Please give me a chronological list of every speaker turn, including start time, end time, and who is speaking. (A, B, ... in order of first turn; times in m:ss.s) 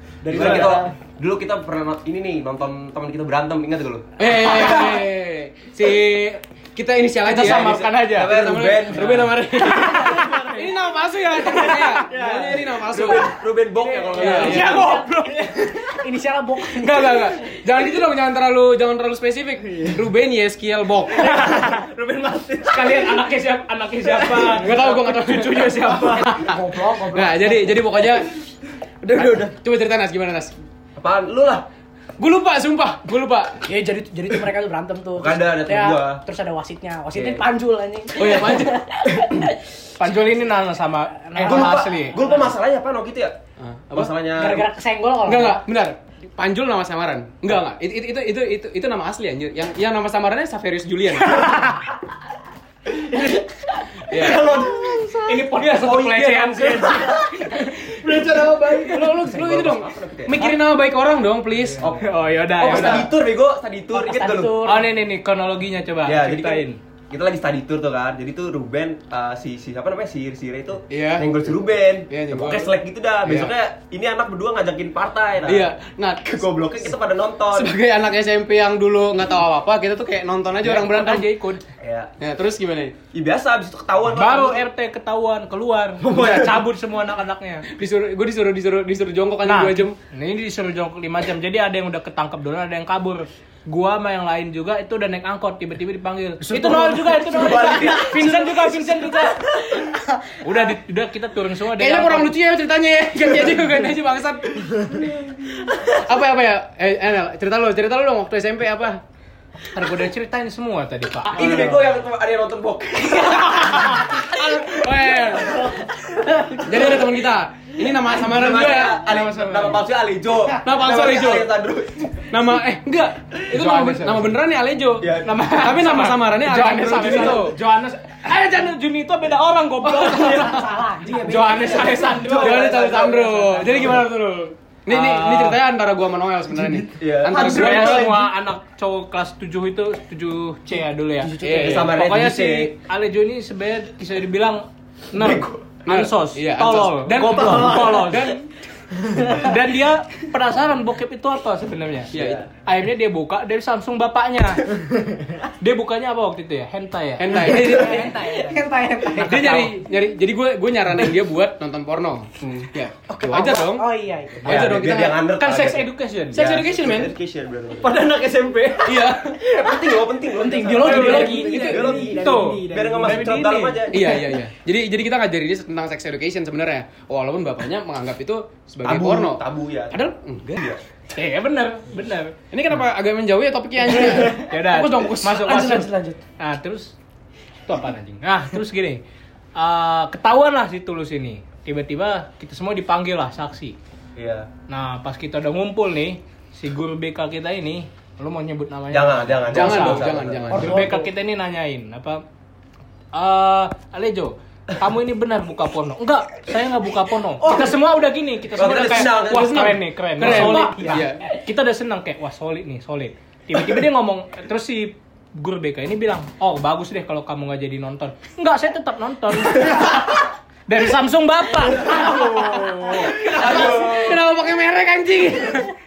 0:00.2-0:00.9 A
0:00.3-0:04.1 B
0:04.2-0:13.3 C
0:07.2-0:09.2 D
0:07.3-0:09.4 B
0:09.8-0:10.7 A
0:11.5-0:13.2 A
0:12.7-0:14.9 B
0:13.8-0:17.4 E
0:14.1-0:14.8 C
0:14.2-0:15.3 D
0:15.2-0:15.7 A
0:16.7-0:21.5 C
0:21.2-0:23.2 A
0:21.4-0:21.8 D
0:22.6-0:26.3 D
0:24.0-0:24.8 A
0:24.5-0:28.3 C
0:26.2-0:27.8 E
0:29.1-0:29.4 A
0:29.1-0:29.5 B
0:29.2-0:30.5 C
0:31.0-0:31.6 B
0:32.2-0:33.6 C
0:33.6-0:39.5 E
0:35.2-0:36.2 B
0:37.1-0:37.4 B
0:38.1-0:38.8 C
0:40.0-0:42.2 D
0:41.2-0:42.0 E
0:41.4-0:43.3 B
0:43.6-0:44.1 C
0:43.9-0:44.7 B
0:44.3-0:45.6 E
0:45.2-0:51.7 C
0:52.9-0:53.5 A
0:54.1-0:54.6 C
0:54.1-0:55.4 A
0:55.1-0:57.6 D
0:55.6-0:56.9 B
0:56.7-0:59.2 A
0:58.1-1:00.5 B
0:58.8-1:01.9 C
1:01.8-1:04.7 B
1:01.9-1:03.1 D
1:03.9-1:04.9 E
1:04.6-1:06.8 D
1:06.0-1:15.7 B
1:10.9-1:13.5 C
1:15.4-1:16.4 C
1:16.3-1:17.7 B
1:17.5-1:21.3 C
1:20.6-1:21.6 D
1:21.8-1:22.1 B
1:22.2-1:22.9 C
1:23.1-1:24.6 B
1:24.1-1:27.7 D
1:26.0-1:26.5 A
1:26.1-1:26.4 B
1:27.7-1:30.0 C
1:29.4-1:39.8 D
1:36.5-1:40.4 E
1:37.3-1:38.1 B
1:40.4-1:42.3 D
1:41.7-1:45.0 C
1:45.7-1:49.0 C
1:49.7-1:50.1 C
1:49.7-1:51.7 D
1:51.3-1:53.9 B
1:53.6-1:55.7 C
1:56.0-1:56.6 E
1:56.6-1:59.1 C
1:58.2-2:02.3 B
1:59.0-1:59.8 D
2:00.6-2:01.5 C
2:02.3-2:07.6 C
2:03.5-2:04.4 D
2:05.0-2:05.5 B
2:05.2-2:12.7 D
2:10.0-2:10.4 C
2:10.1-2:11.5 E
2:10.1-2:13.7 A
2:11.7-2:14.0 B
2:12.3-2:18.1 C
2:14.9-2:15.6 D
2:17.0-2:18.1 B
2:17.2-2:18.3 A
2:17.3-2:28.4 D
2:21.3-2:22.7 B
2:21.4-2:22.0 C
2:25.2-2:25.6 B
2:25.8-2:28.5 C
2:27.4-2:27.9 A
2:29.2-2:32.1 D
2:32.1-2:32.5 B
2:32.1-2:32.4 C
2:32.6-2:35.0 D
2:35.6-2:37.6 D
2:37.2-2:38.2 C
2:37.4-2:39.7 E
2:38.0-2:38.6 A
2:39.1-2:43.9 C
2:42.4-2:42.7 B
2:43.2-2:44.6 E
2:44.4-2:45.2 C
2:44.4-2:48.1 B
2:44.5-2:46.5 D
2:46.3-2:47.1 C
2:47.8-2:49.1 A
2:48.8-2:49.4 C
2:49.4-2:54.2 B
2:50.3-2:52.4 E
2:50.6-2:53.4 A
2:50.8-2:51.4 D
2:50.8-2:52.0 C
2:52.1-2:53.8 D
2:53.9-3:00.6 C
2:58.8-3:00.0 B
3:01.1-3:02.3 D
3:02.5-3:05.6 C
3:04.4-3:06.9 D
3:05.3-3:06.2 E
3:07.6-3:09.0 D
3:09.5-3:13.8 D
3:14.2-3:14.5 B
3:14.7-3:22.2 D
3:18.9-3:20.8 B
3:19.5-3:20.8 C
3:20.5-3:21.0 E
3:23.1-3:43.2 D
3:27.4-3:27.7 E
3:28.5-3:29.8 B
3:28.6-3:31.2 C
3:30.3-3:31.0 E
3:41.9-3:42.7 E
3:42.1-3:45.7 C
3:43.0-3:44.2 B